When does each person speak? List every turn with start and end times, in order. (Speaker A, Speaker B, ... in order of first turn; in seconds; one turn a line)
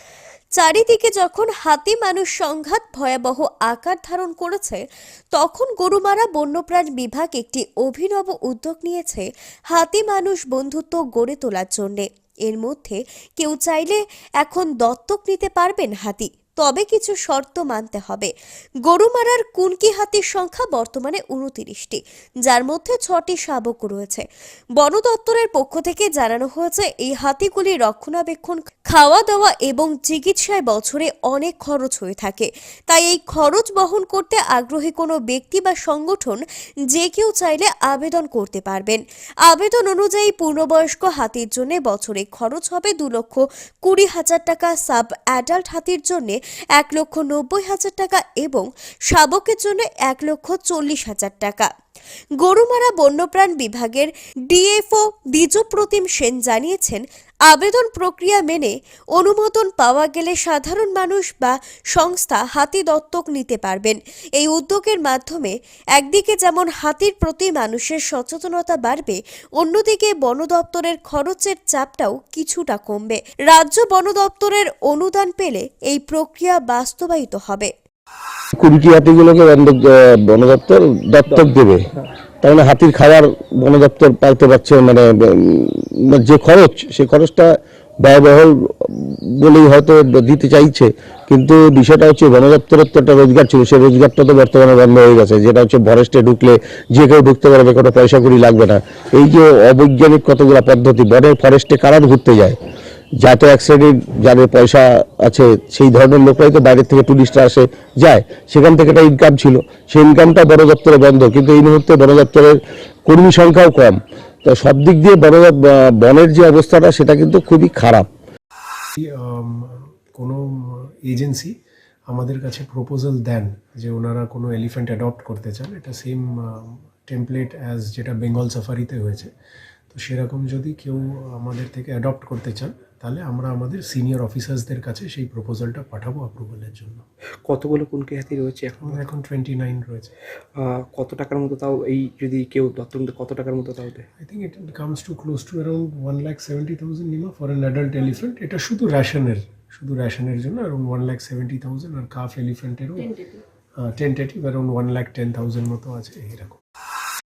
Speaker A: 0.6-18.3
Speaker A: 18.9-24.2
Speaker A: 24.8-36.4
Speaker A: 36.9-51.7
Speaker A: 52.4-77.7
Speaker B: 78.5-81.8
Speaker B: 82.4-102.6
Speaker B: 103.2-118.1
Speaker C: 119.0-121.5
Speaker C: 122.1-129.3
Speaker C: 129.9-137.0
Speaker D: 137.4-139.0
Speaker C: 138.8-140.1
Speaker D: 140.6-144.1
Speaker C: 144.2-156.6